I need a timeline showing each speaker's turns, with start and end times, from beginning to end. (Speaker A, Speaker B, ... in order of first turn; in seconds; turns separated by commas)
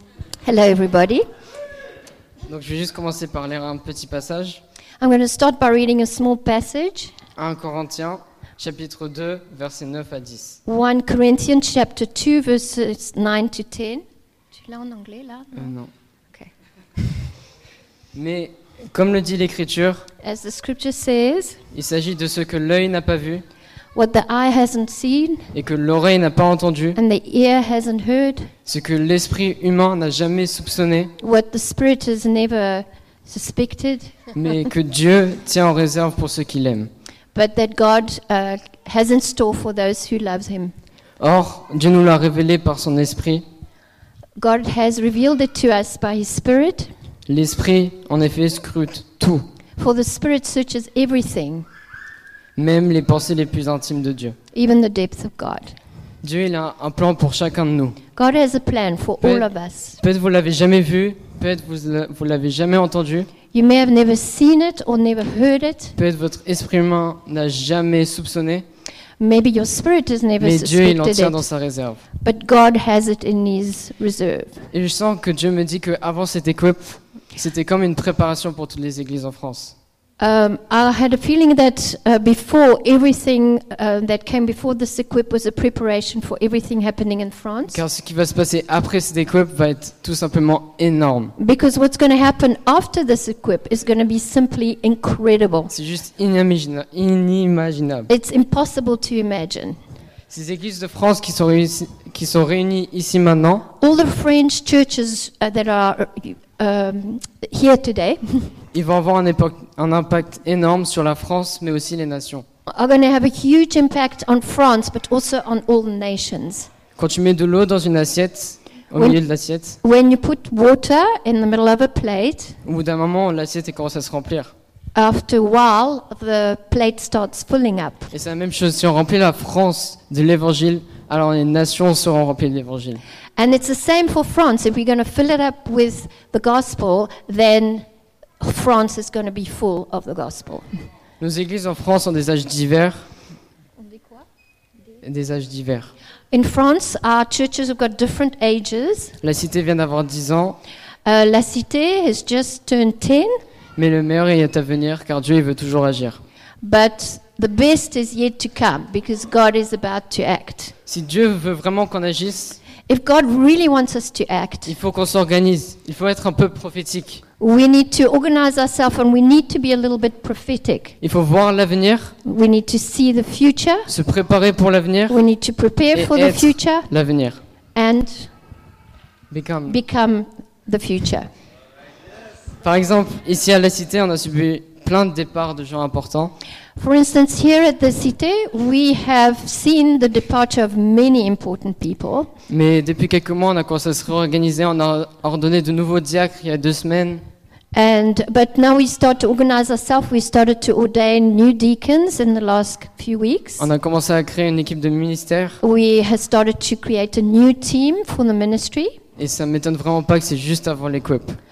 Speaker A: 0.4-1.2, Speaker B: 2.5-4.6, Speaker A: 5.0-7.1, Speaker B: 7.4-10.6, Speaker A: 10.7-14.0, Speaker A: 14.6-15.7, Speaker B: 15.5-15.9, Speaker B: 18.1-20.0, Speaker A: 20.2-21.6, Speaker B: 21.7-23.4, Speaker A: 23.9-25.5, Speaker B: 25.5-27.0, Speaker A: 26.9-28.5, Speaker B: 28.6-31.1, Speaker A: 31.2-34.3, Speaker B: 34.3-36.9, Speaker A: 37.3-40.7, Speaker B: 41.2-43.4, Speaker A: 44.4-46.9, Speaker B: 47.3-49.4, Speaker A: 49.8-51.7, Speaker B: 52.5-54.4, Speaker A: 54.5-55.8, Speaker B: 56.2-58.0, Speaker A: 58.1-60.0, Speaker B: 59.2-63.3, Speaker A: 63.5-65.9, Speaker B: 66.0-68.6, Speaker A: 69.2-71.4, Speaker B: 70.4-72.0, Speaker A: 72.2-74.7, Speaker B: 74.7-79.7, Speaker A: 80.2-87.8, Speaker B: 87.7-91.3, Speaker A: 91.4-95.7, Speaker B: 95.7-98.1, Speaker A: 98.1-99.8, Speaker B: 100.3-103.7, Speaker A: 103.8-108.5, Speaker B: 108.7-112.4, Speaker A: 112.7-116.7, Speaker B: 117.0-119.8, Speaker A: 118.9-119.2, Speaker A: 119.8-122.6, Speaker B: 122.6-124.5, Speaker A: 124.9-128.1, Speaker B: 128.1-133.0, Speaker A: 133.4-137.8, Speaker A: 138.4-140.7, Speaker B: 141.2-143.1, Speaker B: 145.0-145.9, Speaker A: 146.3-149.2, Speaker B: 149.2-150.6, Speaker A: 151.0-153.4, Speaker B: 153.8-156.2, Speaker A: 156.6-160.7, Speaker B: 160.8-162.6, Speaker A: 162.9-164.7, Speaker B: 164.7-167.2, Speaker A: 167.4-171.0, Speaker B: 171.0-172.1, Speaker A: 172.2-173.9, Speaker B: 173.9-175.2, Speaker A: 175.1-176.9, Speaker B: 175.9-177.4, Speaker A: 177.7-178.3, Speaker B: 179.3-179.8, Speaker A: 179.7-181.3, Speaker B: 182.6-186.3, Speaker A: 186.8-192.3, Speaker B: 192.5-197.2, Speaker A: 197.7-203.7, Speaker B: 203.6-205.6, Speaker A: 205.6-209.0, Speaker B: 209.2-211.4